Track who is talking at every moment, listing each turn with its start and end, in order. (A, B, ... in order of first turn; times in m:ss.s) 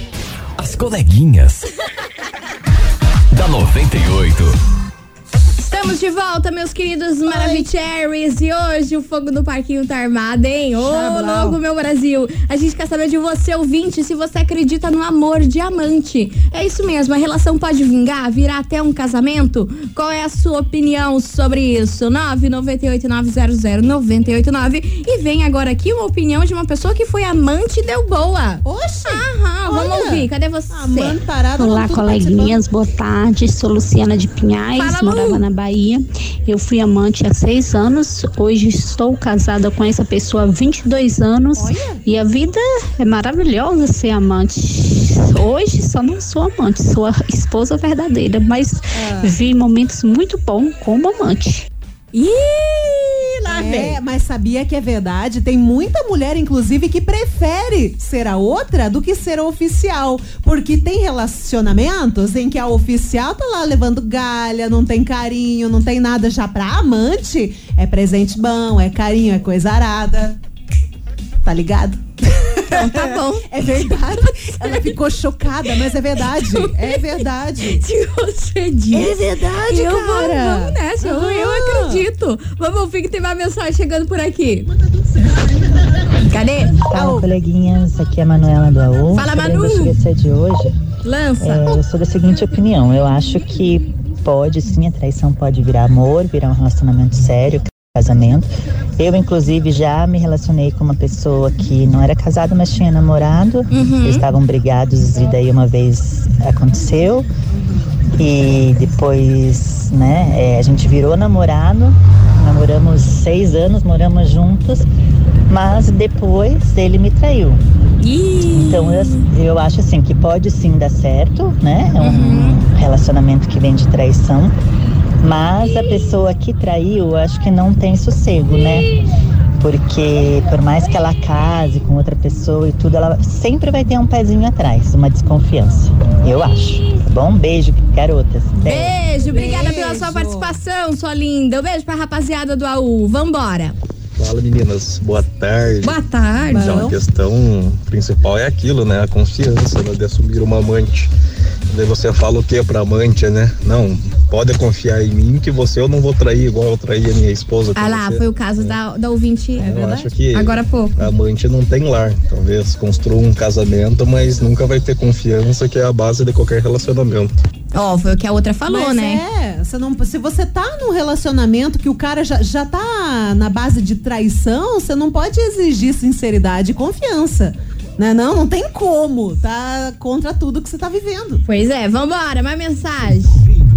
0:00.6-0:01.7 A
0:03.3-0:04.6 A
0:05.6-0:31.2 B
0:07.3-0:07.7 C
0:10.8-0:11.6 C
0:28.6-0:32.7 C
0:31.6-0:51.7 D
0:34.8-0:35.4 B
0:41.6-0:42.0 C
0:49.0-0:49.4 C
0:52.1-0:54.0 B
0:53.5-1:10.4 C
1:11.4-1:17.8 C
1:12.7-1:13.5 B
1:14.4-1:15.0 B
1:15.7-1:17.1 B
1:17.8-1:24.7 B
1:18.9-1:22.0 C
1:24.8-1:25.9 C
1:26.2-1:26.8 B
1:26.9-1:30.8 E
1:26.9-1:27.3 C
1:29.2-1:29.9 B
1:31.0-1:31.8 B
1:31.4-1:47.3 E
1:43.7-1:44.3 B
1:47.5-1:47.9 C
1:48.2-1:54.9 E
1:55.5-1:57.6 E
1:58.0-1:59.3 B
1:58.4-2:04.5 E
2:02.0-2:02.6 B
2:05.2-2:08.9 E
2:09.6-2:19.0 E
2:18.6-2:23.8 B
2:19.3-2:20.6 C
2:24.2-2:31.1 F
2:25.8-2:26.8 B
2:26.5-2:27.0 C
2:31.7-2:38.8 F
2:37.8-2:39.7 B
2:39.6-2:40.1 C
2:39.6-2:47.3 F
2:40.3-2:41.0 B
2:47.7-2:49.2 B
2:48.7-3:01.4 C
3:01.4-3:03.4 B